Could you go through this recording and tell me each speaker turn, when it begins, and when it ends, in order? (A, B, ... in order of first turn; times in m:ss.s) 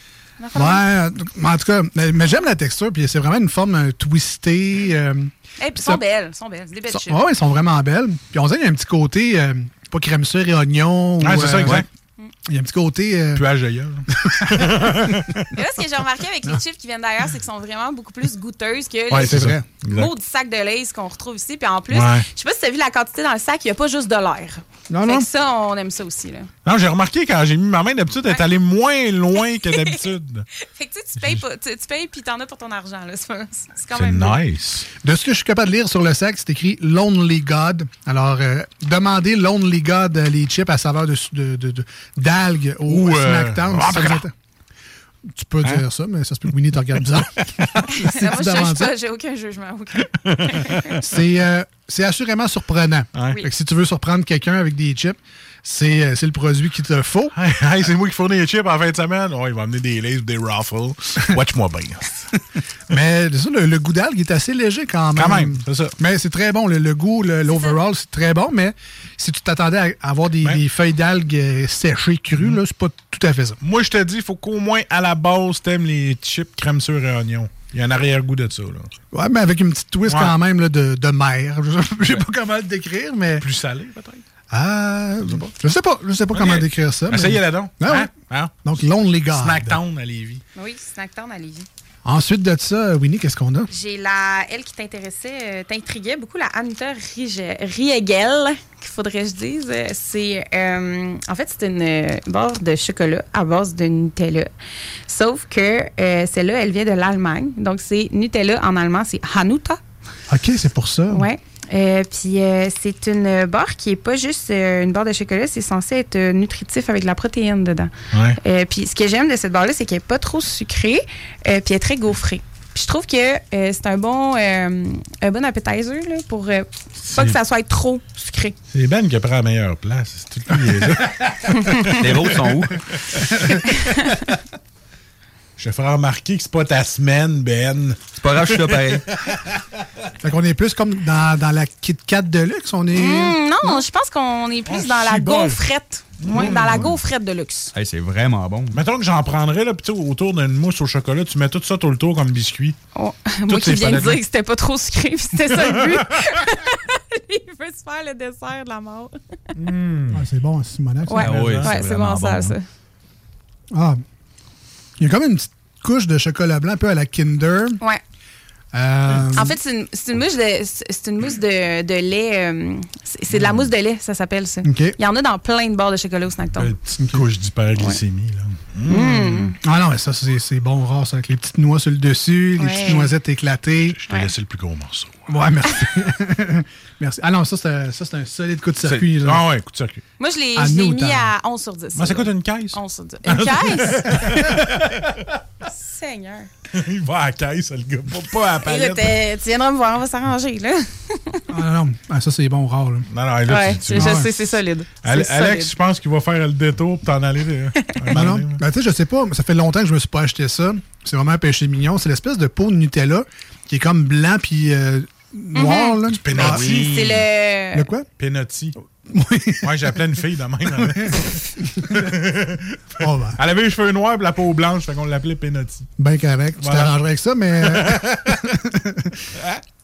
0:00.4-0:00.8 A
0:00.5-0:05.3 B
0:05.6-0:07.2 A
0:06.9-0:11.9 B
0:11.2-0:11.9 C
0:12.4-0:13.4 B
0:13.3-0:15.5 C
0:14.1-0:15.2 B
0:15.5-0:19.3 A
0:19.1-0:20.1 C
0:19.1-0:19.6 B
0:19.9-0:26.5 A
0:21.9-0:22.2 C
0:24.9-0:25.3 B
0:26.6-0:30.4 C
0:29.6-0:30.0 A
0:30.6-0:34.4 A
0:33.9-0:34.9 C
0:35.0-0:44.3 B
0:42.9-0:44.2 C
0:45.3-0:48.9 B
0:47.9-0:50.9 A
0:50.2-0:51.0 C
0:51.0-0:57.3 B
0:53.2-0:53.4 C
0:57.3-1:02.4 C
1:02.9-1:13.6 B
1:05.2-1:06.0 C
1:13.6-1:18.9 C
1:19.1-1:23.4 B
1:20.1-1:20.3 C
1:23.4-1:24.2 C
1:24.5-1:28.1 B
1:26.3-1:28.7 C
1:28.6-1:29.8 B
1:29.3-1:30.4 C
1:30.5-1:31.7 A
1:32.0-1:33.7 B
1:33.7-1:44.5 A
1:45.1-1:49.8 A
1:50.3-1:51.3 B
1:51.1-2:08.6 A
1:58.1-1:58.4 C
2:07.0-2:07.4 C
2:08.7-2:13.6 C
2:11.6-2:11.9 A
2:11.9-2:12.9 D
2:13.6-2:14.2 A
2:15.6-2:19.5 C
2:18.2-2:19.0 D
2:20.2-2:23.7 B
2:22.9-2:27.7 A
2:24.6-2:25.6 C
2:26.2-2:26.9 C
2:27.7-2:28.8 D
2:28.7-2:32.8 C
2:32.9-2:39.2 A
2:33.5-2:34.2 C
2:35.5-2:36.3 C
2:39.6-2:40.2 C
2:40.1-2:41.5 B
2:41.1-2:42.6 A
2:41.2-2:42.6 D
2:41.2-2:41.7 C
2:43.7-2:44.0 B
2:45.0-2:47.8 B
2:48.7-2:49.6 B
2:49.3-2:56.7 A
2:53.3-2:53.6 C
2:54.6-2:55.0 B
2:56.6-2:59.5 C
2:57.0-2:57.2 B
2:58.9-2:59.6 A
2:59.6-3:04.0 B
3:02.6-3:03.1 A
3:03.9-3:05.3 C
3:05.3-3:09.4 B
3:08.9-3:10.0 C
3:10.2-3:14.2 A
3:10.6-3:11.3 B
3:11.9-3:15.2 C
3:14.1-3:14.8 B
3:15.6-3:16.5 A
3:16.7-3:19.2 C
3:18.6-3:21.4 A
3:21.5-3:23.1 B
3:23.1-3:24.5 C
3:23.5-3:25.7 A
3:23.9-3:24.3 B
3:25.0-3:28.6 C
3:28.1-3:36.7 B
3:35.5-3:36.0 A
3:36.1-3:37.2 C
3:36.4-3:37.2 D
3:36.6-3:37.9 A
3:37.7-3:38.1 B
3:38.2-3:38.8 C
3:39.0-3:40.0 B
3:39.6-3:45.9 C
3:40.7-3:42.2 B
3:43.0-3:43.4 B
3:46.0-3:49.2 B
3:46.6-3:46.9 C
3:47.6-3:48.5 C
3:49.3-3:49.6 C